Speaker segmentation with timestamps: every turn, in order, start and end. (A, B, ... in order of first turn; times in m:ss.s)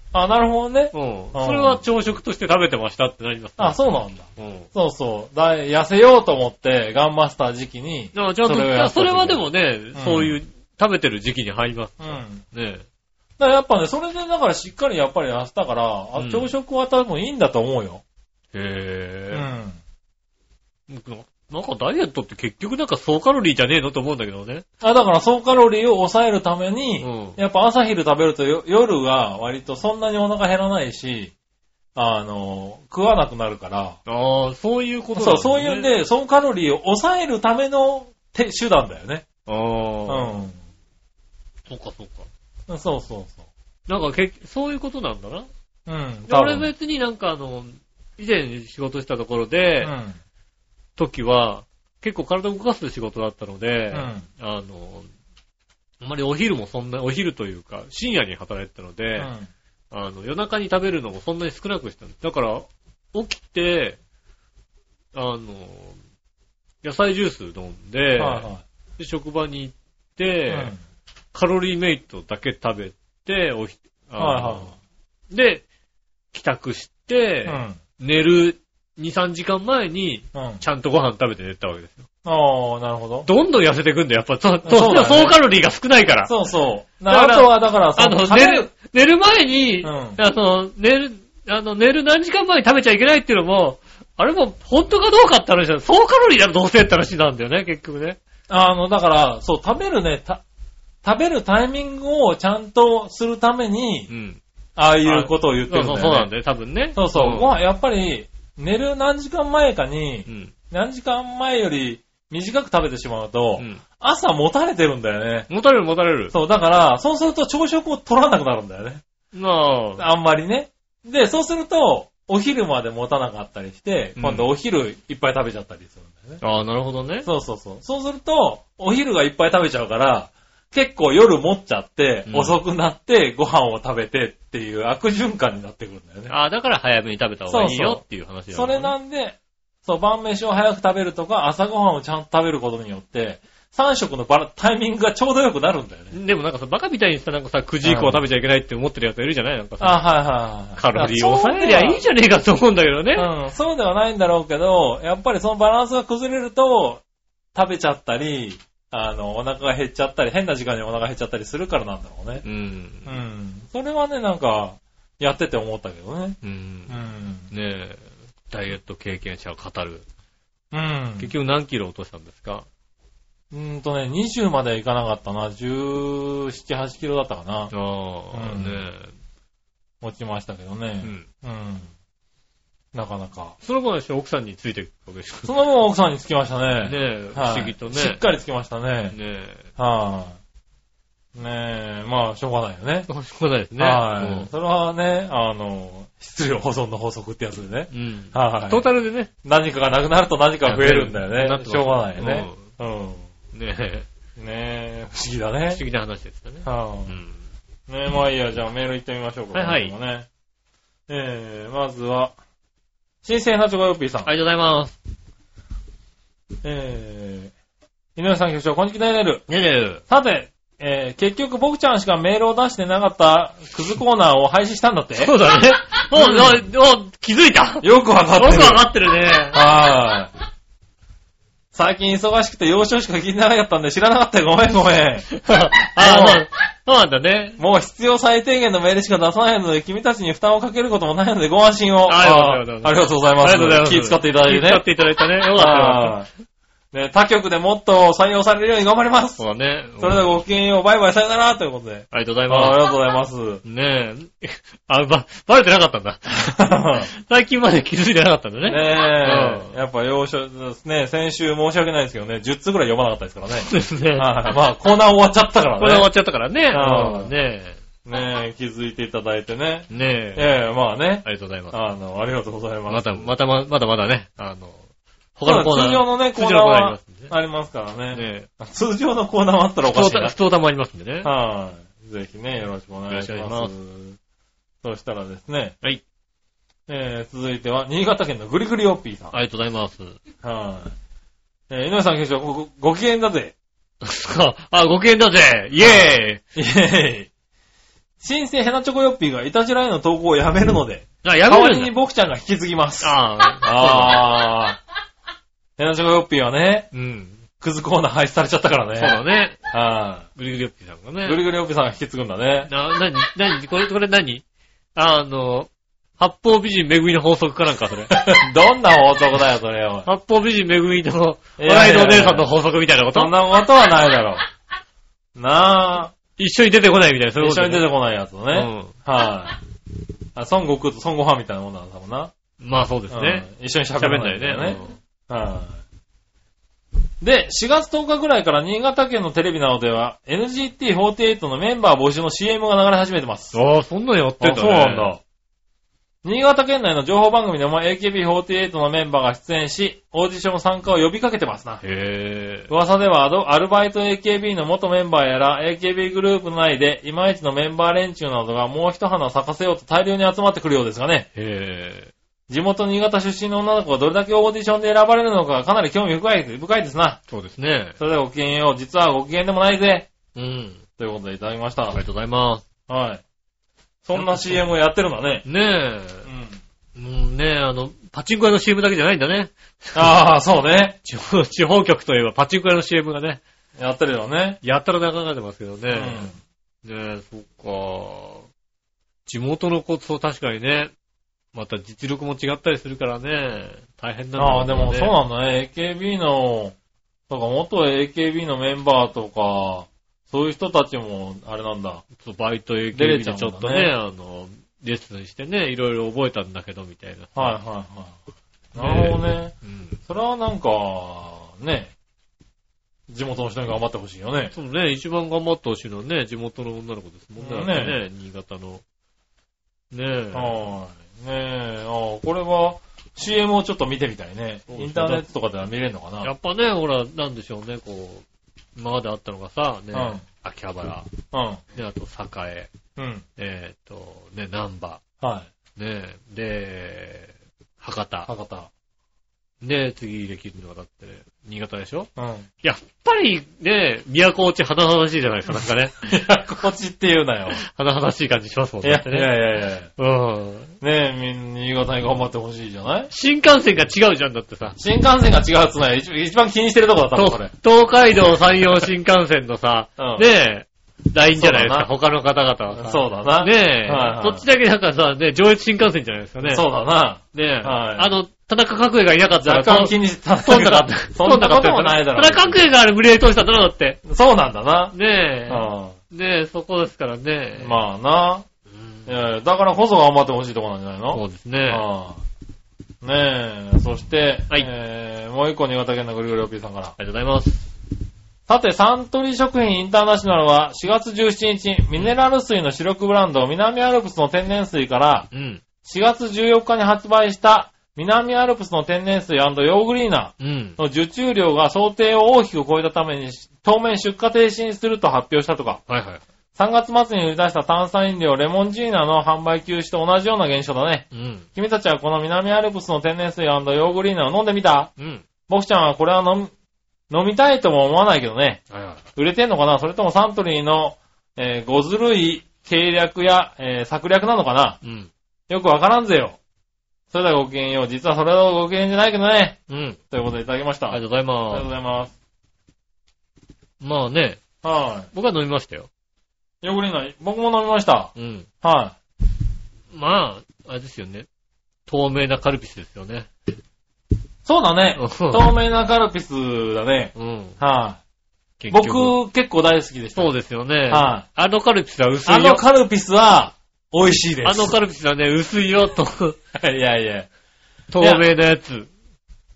0:00.1-0:01.8 A
0:00.9-0:03.8 B
0:03.6-0:10.4 A
0:04.4-0:04.7 B
0:08.1-0:12.8 B
0:12.0-0:12.4 A
0:13.4-0:18.0 A
0:16.2-0:16.5 B
0:18.5-0:19.5 B
0:19.3-0:19.8 A
0:20.9-0:24.6 B
0:24.8-0:31.3 A
0:27.0-0:27.4 B
0:31.9-0:34.0 A
0:34.0-0:35.9 B
0:35.2-0:39.2 A
0:39.5-0:40.3 B
0:40.1-0:40.6 A
0:41.7-0:42.3 B
0:42.7-0:43.4 A
0:43.9-0:45.5 B
0:45.9-0:46.7 A
0:46.3-0:49.9 B
0:49.8-0:50.2 A
0:51.0-0:55.1 B
0:53.9-0:54.2 A
0:56.0-0:59.3 B
0:59.2-0:59.5 A
0:59.9-1:04.0 B
1:05.1-1:06.0 B
1:06.8-1:10.7 B
1:08.2-1:08.6 A
1:10.5-1:10.8 A
1:11.3-1:14.7 B
1:14.2-1:14.7 A
1:15.3-1:15.6 B
1:16.3-1:22.0 B
1:17.4-1:17.8 A
1:20.3-1:20.6 A
1:22.2-1:23.3 A
1:23.2-1:26.3 B
1:24.6-1:25.4 A
1:26.2-1:28.7 A
1:27.1-1:38.2 B
1:29.8-1:30.2 A
1:38.5-1:40.4 A
1:41.0-1:44.1 A
1:44.1-1:44.4 B
1:44.8-1:46.3 A
1:45.0-1:47.5 B
1:46.9-1:55.5 A
1:50.3-1:50.5 B
1:53.6-1:53.8 B
1:55.5-1:56.3 B
1:56.3-1:59.0 A
1:59.3-2:00.0 B
2:00.0-2:06.4 A
2:04.2-2:04.5 B
2:06.4-2:07.3 B
2:07.2-2:16.3 A
2:12.3-2:12.6 B
2:16.3-2:18.9 B
2:17.5-2:26.1 A
2:26.1-2:30.0 B
2:27.8-2:28.2 A
2:29.8-2:32.0 A
2:30.8-2:33.3 B
2:33.2-2:37.0 A
2:37.5-2:42.4 A
2:42.4-2:43.1 B
2:43.0-2:46.4 A
2:46.4-2:47.0 B
2:46.9-2:47.5 A
2:47.5-2:50.0 B
2:50.7-2:51.3 A
2:51.2-2:52.6 B
2:53.5-2:57.7 A
2:57.7-2:59.1 B
2:58.3-2:58.8 A
3:00.0-3:01.9 A
3:01.0-3:01.3 B
3:02.9-3:03.5 A
3:03.6-3:05.5 B
3:05.4-3:09.1 A
3:06.8-3:08.2 B
3:09.1-3:09.6 B
3:09.8-3:10.4 A
3:11.3-3:13.1 A
3:13.1-3:14.5 B
3:13.8-3:18.8 A
3:17.9-3:19.3 B
3:19.4-3:23.3 A
3:20.6-3:22.7 B
3:23.5-3:24.1 B
3:24.4-3:25.8 A
3:25.7-3:27.4 B
3:26.6-3:27.1 A
3:27.9-3:30.3 A
3:29.5-3:29.9 B
3:31.1-3:32.4 A
3:33.2-3:34.3 A
3:34.2-3:35.0 B
3:36.6-3:37.5 A
3:38.2-3:39.4 A
3:39.5-3:40.0 B
3:40.1-3:45.3 A
3:45.2-3:49.6 B
3:46.1-3:46.6 A
3:47.8-3:48.8 A
3:49.5-3:50.3 A
3:51.7-3:55.4 A
3:55.3-3:57.6 B
3:55.9-3:56.4 A
3:57.6-4:04.8 A
4:02.1-4:06.2 B
4:05.5-4:06.3 A
4:06.9-4:09.4 A
4:09.4-4:10.2 B
4:10.0-4:13.6 A
4:12.1-4:12.8 B
4:13.6-4:19.7 B
4:16.4-4:17.1 A
4:18.6-4:26.1 A
4:23.6-4:24.3 B
4:25.8-4:27.8 B
4:26.7-4:27.3 A
4:28.0-4:33.3 A
4:29.9-4:30.5 B
4:31.2-4:31.8 B
4:32.9-4:34.8 B
4:35.4-4:37.3 B
4:35.4-4:40.3 A
4:38.1-4:38.5 B
4:39.8-4:41.3 B
4:41.2-4:44.2 A
4:43.1-4:43.7 B
4:44.8-4:45.8 A
4:46.9-4:49.3 A
4:49.3-4:50.2 B
4:50.4-4:50.9 A
4:51.7-4:53.5 A
4:54.0-4:56.4 B
4:55.8-4:57.3 A
4:58.2-5:04.8 A
5:01.2-5:01.9 B
5:03.0-5:04.2 B
5:05.8-5:06.9 A
5:06.9-5:07.4 B
5:07.6-5:10.3 A
5:09.0-5:09.6 B
5:10.4-5:11.4 B
5:11.2-5:12.7 A
5:12.7-5:14.4 B
5:14.9-5:18.2 B
5:18.1-5:20.1 A
5:20.0-5:23.3 B
5:21.6-5:22.5 A
5:23.1-5:24.4 A
5:25.3-5:26.1 A
5:26.4-5:27.9 B
5:27.4-5:29.6 A
5:28.5-5:28.9 B
5:30.3-5:32.3 A
5:32.6-5:35.0 B
5:33.1-5:35.8 A
5:37.2-5:43.5 A
5:43.5-5:45.1 B
5:44.4-5:45.2 A
5:46.2-5:51.8 A
5:51.8-5:52.7 B
5:52.7-6:01.3 A
6:01.3-6:02.1 B
6:02.5-6:07.2 A
6:07.3-6:08.0 B
6:08.0-6:10.1 A
6:10.3-6:10.8 B
6:11.0-6:12.0 A
6:11.9-6:12.6 B
6:12.9-6:13.2 A
6:14.0-6:15.4 A
6:14.2-6:14.6 B
6:15.4-6:16.3 B
6:16.2-6:16.6 A
6:17.0-6:20.1 B
6:19.9-6:21.0 A
6:21.0-6:23.4 B
6:23.8-6:24.6 A
6:24.6-6:26.3 B
6:25.9-6:26.4 A
6:26.8-6:28.5 B
6:29.2-6:30.9 B
6:31.5-6:35.1 B
6:34.4-6:36.7 A
6:37.3-6:42.0 A
6:42.2-6:47.6 B
6:42.9-6:43.9 A
6:47.4-6:48.2 A
6:48.7-6:49.5 A
6:48.8-6:50.0 B
6:50.1-6:51.9 A
6:53.1-6:54.5 A
6:54.5-6:58.8 B
6:57.4-6:58.0 A
6:59.9-7:00.5 B
7:00.3-7:06.3 A
7:04.7-7:05.2 B
7:06.2-7:08.2 B
7:08.8-7:11.1 B
7:09.9-7:10.2 A
7:11.3-7:11.6 A
7:11.7-7:12.7 B
7:13.0-7:13.2 A
7:13.4-7:15.0 B
7:15.2-7:15.5 A
7:15.8-7:18.3 B
7:18.3-7:18.7 A
7:19.6-7:22.1 B
7:22.2-7:22.4 A
7:22.6-7:26.0 B
7:26.0-7:27.6 A
7:27.6-7:29.4 B
7:28.8-7:29.9 A
7:30.0-7:30.7 B
7:30.8-7:33.1 A
7:33.1-7:34.8 B
7:34.8-7:37.5 A
7:37.1-7:46.6 B
7:40.0-7:40.3 A
7:41.3-7:41.9 A
7:42.7-7:44.4 A
7:46.4-7:48.1 A
7:47.3-7:54.0 B
7:49.4-7:52.6 A
7:54.0-7:54.9 A
7:54.9-7:57.8 B
7:55.5-7:56.0 A
7:57.6-7:58.4 A
7:58.8-7:59.1 B
7:59.1-8:02.2 A
8:01.1-8:01.8 B
8:03.0-8:06.9 A
8:07.0-8:07.7 B
8:08.5-8:15.3 A
8:15.3-8:15.6 B
8:15.8-8:25.8 A
8:20.4-8:20.8 B
8:25.9-8:26.2 B
8:26.6-8:34.9 A
8:31.1-8:31.4 B
8:35.0-8:35.2 B
8:35.5-8:36.5 A
8:37.1-8:38.6 A
8:38.7-8:39.0 B
8:39.2-8:44.8 A
8:44.8-8:45.1 B
8:45.5-8:46.4 A
8:47.1-8:49.6 A
8:49.7-8:50.0 B
8:50.1-8:52.1 A
8:50.9-8:51.7 B
8:53.8-8:54.4 B
8:54.6-8:55.1 A
8:55.1-8:55.9 B
8:56.6-8:59.0 A
8:58.2-8:58.5 B
8:59.9-9:01.3 B
9:01.9-9:03.3 B
9:04.4-9:08.0 A
9:05.0-9:05.5 B
9:07.1-9:07.6 B
9:08.6-9:09.2 B
9:08.7-9:10.3 A
9:10.1-9:12.6 B
9:10.9-9:11.2 A
9:12.2-9:14.7 A
9:14.4-9:16.4 B
9:16.5-9:17.3 A
9:17.9-9:18.9 B
9:18.0-9:18.2 A